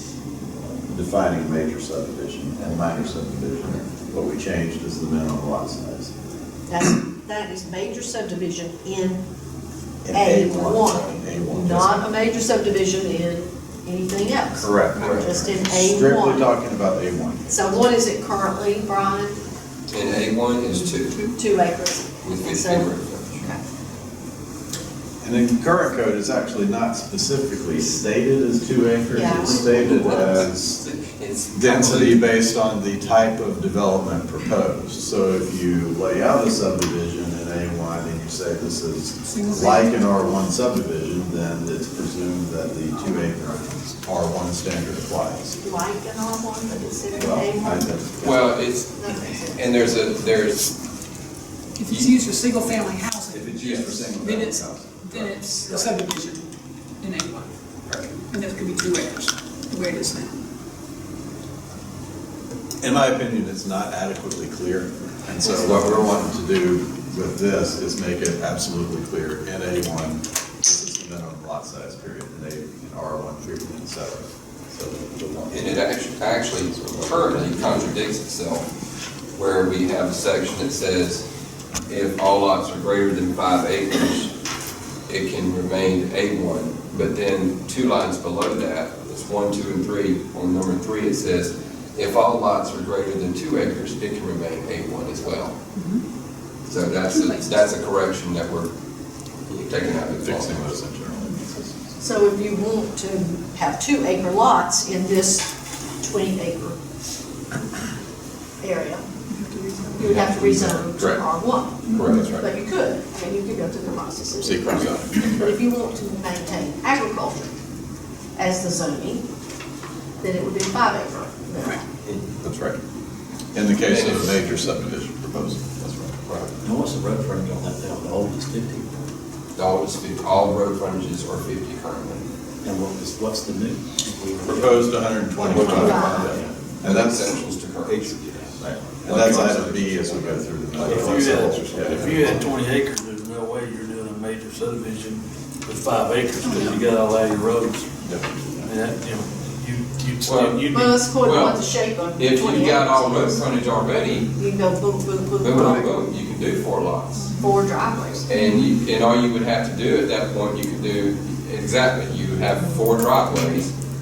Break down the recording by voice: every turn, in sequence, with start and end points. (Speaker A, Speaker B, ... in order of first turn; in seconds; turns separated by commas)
Speaker A: 0.6-6.1, Speaker B: 6.7-9.2, Speaker A: 10.1-12.1, Speaker B: 10.1-16.5, Speaker A: 14.5-17.5, Speaker B: 17.5-19.4, Speaker C: 19.9-21.2, Speaker B: 21.3-23.6, Speaker C: 22.2-23.4, Speaker A: 25.2-30.8, Speaker B: 29.1-29.8, Speaker C: 29.5-32.4, Speaker A: 31.5-45.6, Speaker D: 39.2-39.9, Speaker B: 45.6-48.0, Speaker A: 47.2-48.5, Speaker C: 48.2-50.7, Speaker B: 49.0-50.0, Speaker D: 51.8-56.5, Speaker C: 51.9-52.2, Speaker A: 53.3-55.9, Speaker C: 53.6-54.1, Speaker D: 57.0-57.5, Speaker D: 58.3-60.4, Speaker A: 62.8-78.0, Speaker C: 65.4-66.2, Speaker C: 75.5-78.7, Speaker C: 79.4-81.2, Speaker C: 81.9-84.3, Speaker C: 85.1-95.6, Speaker D: 95.8-96.0, Speaker C: 96.7-98.7, Speaker D: 96.9-97.6, Speaker C: 99.5-100.7, Speaker A: 100.2-101.7, Speaker B: 102.0-105.5, Speaker B: 106.0-106.8, Speaker B: 108.6-109.0, Speaker D: 109.3-110.3, Speaker B: 110.0-117.5, Speaker C: 110.0-110.8, Speaker A: 110.9-111.2, Speaker D: 111.9-112.3, Speaker C: 111.9-112.5, Speaker A: 114.4-115.5, Speaker B: 118.4-119.2, Speaker B: 120.2-121.8, Speaker A: 122.4-122.8, Speaker A: 123.5-126.5, Speaker C: 123.8-124.5, Speaker E: 126.6-128.9, Speaker C: 129.6-132.2, Speaker E: 132.6-135.0, Speaker A: 134.4-137.4, Speaker C: 135.4-136.3, Speaker E: 135.5-136.5, Speaker B: 135.6-136.3, Speaker C: 136.8-138.3, Speaker E: 137.9-138.1, Speaker A: 138.6-142.5, Speaker E: 139.1-141.1, Speaker C: 139.1-139.8, Speaker F: 140.8-148.0, Speaker B: 146.5-146.8, Speaker A: 148.1-148.7, Speaker F: 148.6-151.0, Speaker C: 150.2-151.6, Speaker B: 150.7-153.5, Speaker C: 152.2-154.3, Speaker B: 154.3-156.0, Speaker C: 155.4-157.3, Speaker D: 157.2-157.6, Speaker B: 157.4-158.3, Speaker C: 158.3-163.7, Speaker D: 158.3-158.7